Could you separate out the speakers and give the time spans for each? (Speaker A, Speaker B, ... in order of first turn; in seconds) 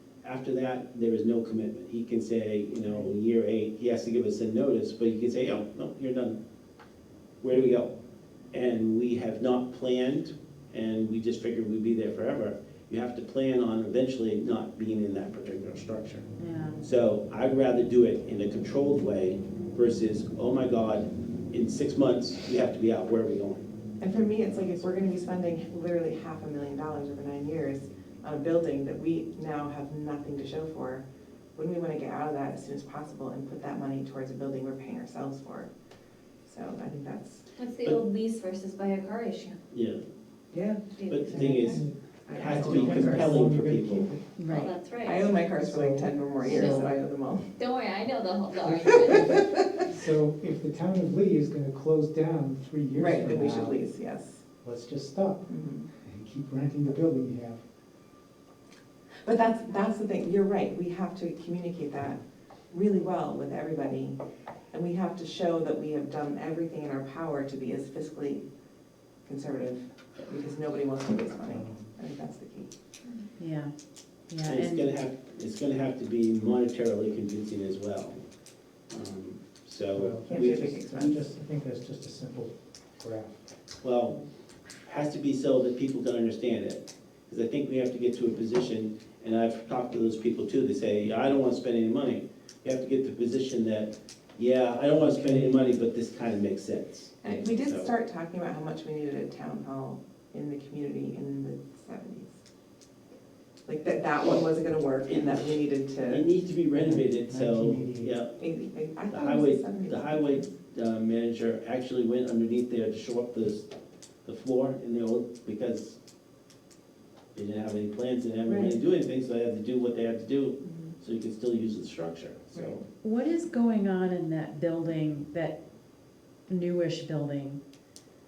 Speaker A: 0.2-6.4, 7.4-7.9, 8.5-16.3, 16.8-24.7, 39.7-40.0, 41.1-44.1, 74.4-78.2, 78.9-80.6, 83.8-84.2, 84.8-97.9, 105.0-105.5, 106.1-108.3, 109.1-113.7, 114.2-116.0, 117.3-122.8
Speaker B: 16.4-16.8, 44.4-44.7, 73.4-73.7, 74.3-74.9, 123.0-125.6, 126.5-127.6
Speaker C: 24.0-35.7, 36.4-37.4, 40.5-40.8, 42.2-43.4, 45.0-47.5, 48.6-49.8, 52.9-54.4, 55.5-55.9, 59.2-62.2, 62.7-64.2, 64.7-68.4, 69.2-72.7, 80.3-81.3, 97.2-102.4, 103.7-106.2, 108.4-110.5, 118.5-118.8, 120.6-120.9, 122.5-122.8
Speaker D: 37.5-39.6, 40.9-41.8, 44.5-45.2, 46.4-46.9, 47.6-49.4
Speaker E: 41.3-44.3, 45.5-46.1, 49.9-53.8, 54.6-55.5, 56.0-57.6, 71.5-71.9, 79.9-83.5, 95.1-95.6, 106.7-108.1